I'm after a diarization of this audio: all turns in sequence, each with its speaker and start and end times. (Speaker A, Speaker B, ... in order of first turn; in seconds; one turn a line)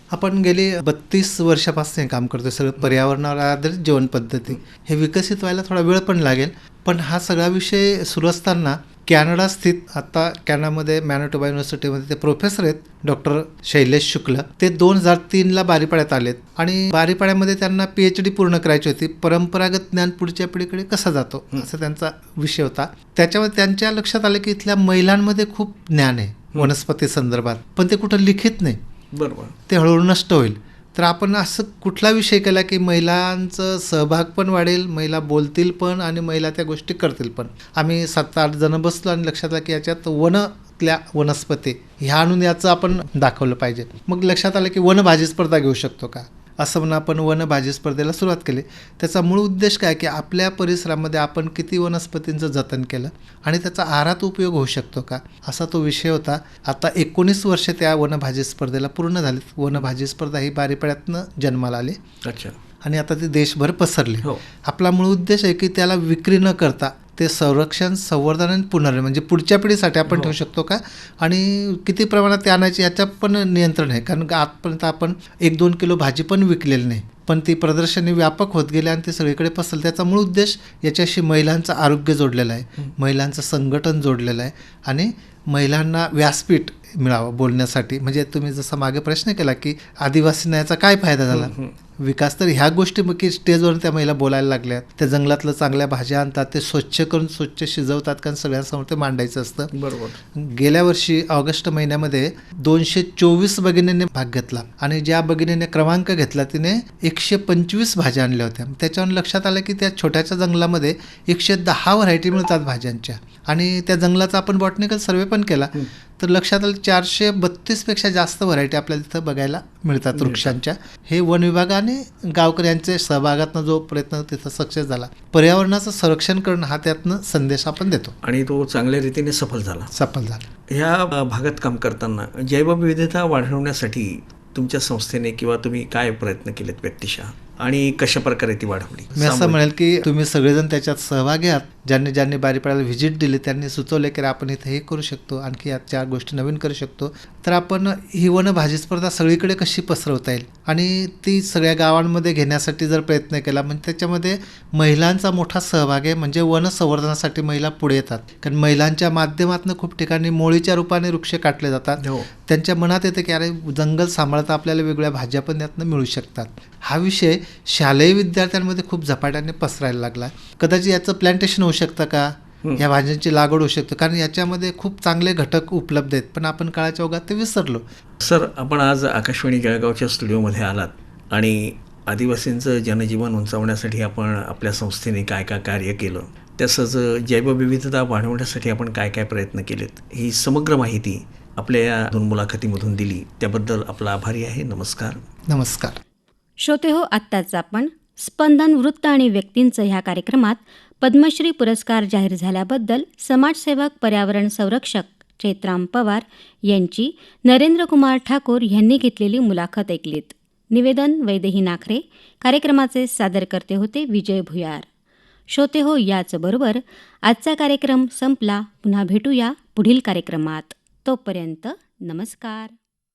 Speaker A: 0.1-28.8
Speaker B: 29.1-29.5
Speaker A: 29.7-62.0
Speaker B: 62.2-62.5
Speaker A: 62.8-99.7
Speaker B: 70.1-70.3
Speaker B: 91.3-91.7
Speaker B: 99.7-100.2
Speaker A: 100.3-128.1
Speaker B: 120.2-120.5
Speaker B: 128.2-129.9
Speaker A: 129.9-130.4
Speaker B: 130.7-139.6
Speaker A: 139.1-177.8
Speaker B: 162.0-162.3
Speaker B: 178.2-195.2
Speaker A: 195.5-196.0
Speaker C: 196.6-214.9
Speaker C: 215.5-222.7